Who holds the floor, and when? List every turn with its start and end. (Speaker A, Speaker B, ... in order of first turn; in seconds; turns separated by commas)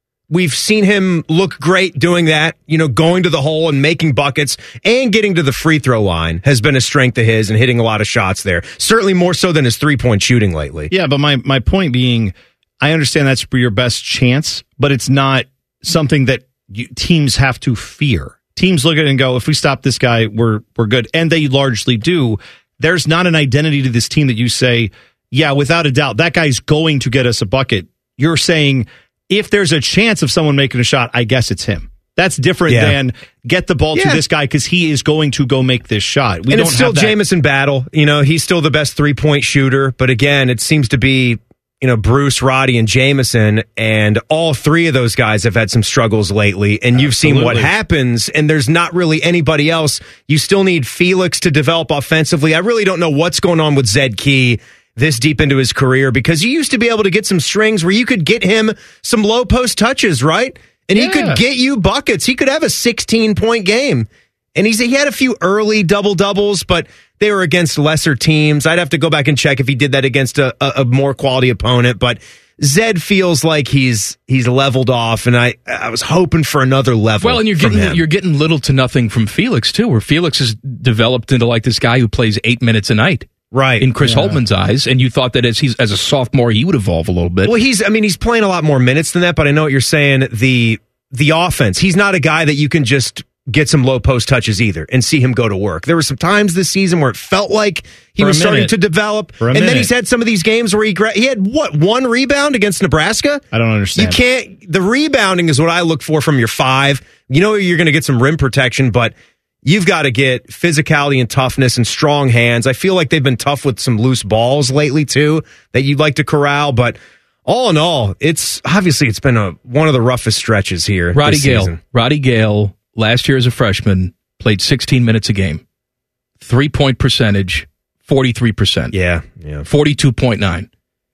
Speaker A: 0.3-10.9, Speaker B: 10.9-37.2, Speaker A: 32.7-33.0, Speaker A: 34.0-34.2, Speaker A: 36.5-78.0, Speaker B: 46.9-47.7, Speaker B: 61.1-61.3, Speaker C: 77.2-87.5, Speaker A: 83.5-83.9, Speaker B: 84.0-84.4, Speaker A: 87.4-103.5, Speaker B: 98.2-98.7, Speaker B: 99.4-99.9, Speaker B: 103.5-104.2, Speaker A: 104.0-121.8, Speaker C: 121.1-125.6, Speaker C: 126.4-128.9, Speaker A: 128.9-129.7, Speaker C: 129.7-130.7